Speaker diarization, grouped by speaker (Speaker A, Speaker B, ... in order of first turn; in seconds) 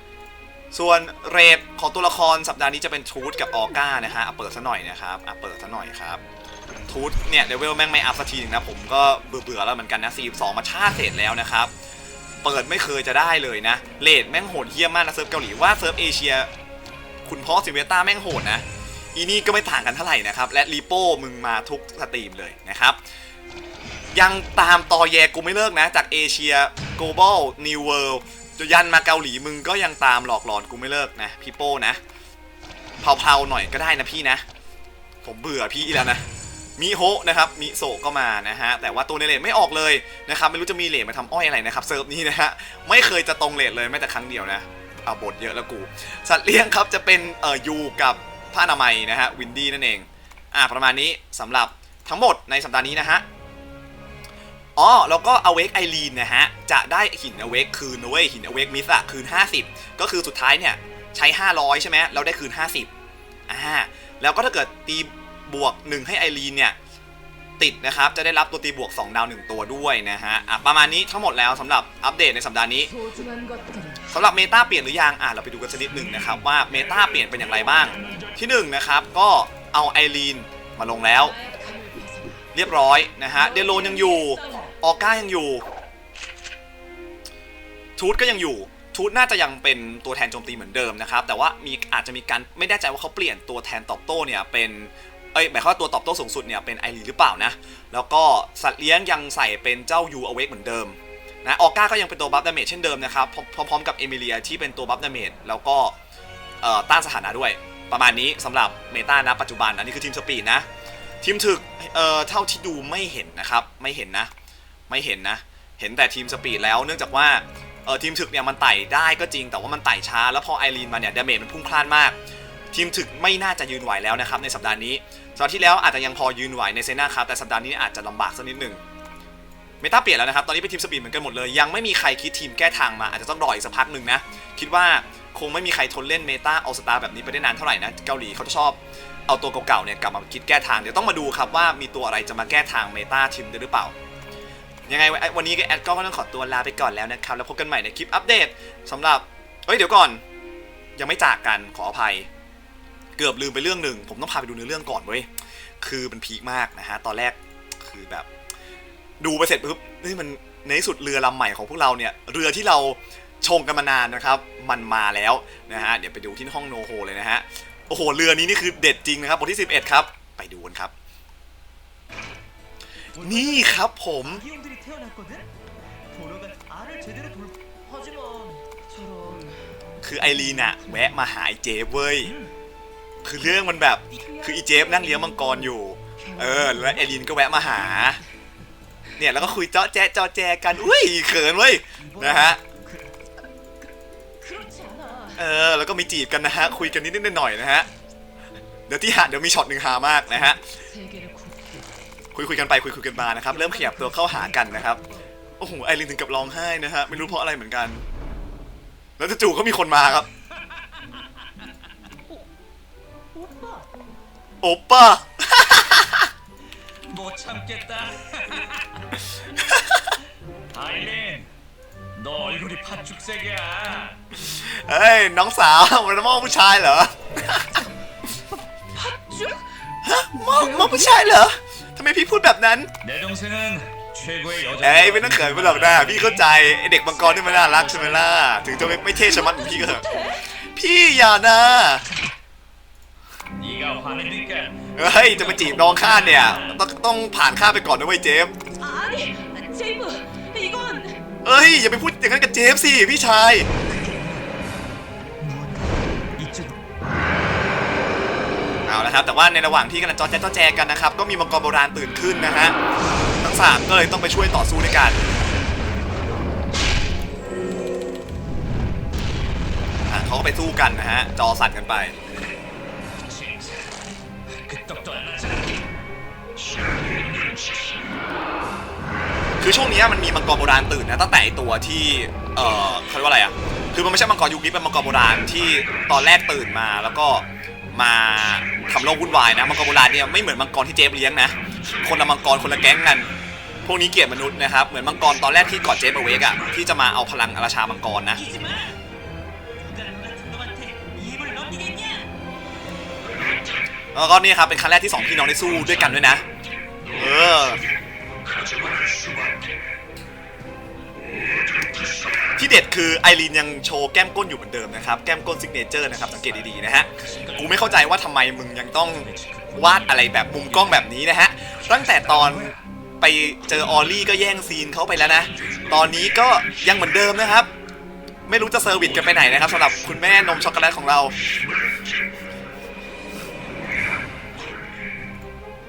Speaker A: 0.7-6.2, 6.9-11.7, 12.4-16.5, 17.2-23.0, 24.1-32.0, 33.0-34.4, 35.2-36.2, 36.8-53.2, 54.8-62.9, 63.5-66.8, 67.6-72.9, 74.1-81.4, 82.5-85.6, 88.0-106.0, 106.6-110.7, 111.2-114.3, 114.9-122.2, 122.7-128.8, 129.8-143.9, 144.9-150.2, 150.9-152.3, 153.2-155.3, 155.8-158.3, 159.2-170.9, 173.2-174.4, 180.0-182.3, 183.2-188.2, 189.2-192.6, 195.4-197.9, 198.9-200.7, 202.3-205.0, 205.6-208.0, 209.2-210.3, 214.6-216.3, 219.6-220.0, 224.3-227.8, 230.0-232.9, 234.8-242.1, 244.9-248.5, 251.4-253.7, 258.8-262.8, 263.4-265.2, 270.0-272.2, 279.6-293.3, 293.8-298.4, 304.1-306.4, 307.1-307.8, 312.6-327.7, 328.5-331.3
Speaker B: 72.8-74.1, 81.2-82.5, 83.5-84.8, 178.2-179.7, 180.2-181.1, 184.7-185.6, 186.2-187.3, 194.4-195.4, 200.4-202.1, 203.3-204.3, 228.9-229.6, 230.4-231.2, 239.3-240.4, 248.8-251.2
Speaker C: 75.9-76.4, 77.2-78.3, 173.2-175.4, 176.1-177.5, 192.2-192.5, 203.6-204.2, 217.1-218.9, 220.7-221.5, 222.2-224.2, 233.0-236.5, 237.1-238.3, 243.6-246.8, 253.9-254.4, 255.4-256.7, 273.2-273.9, 274.6-275.8, 277.1-277.9, 291.9-292.2, 298.4-298.9, 299.9-302.2, 309.1-309.3, 316.1-317.9, 319.1-319.9, 320.5-321.0, 321.8-322.8, 329.3-329.8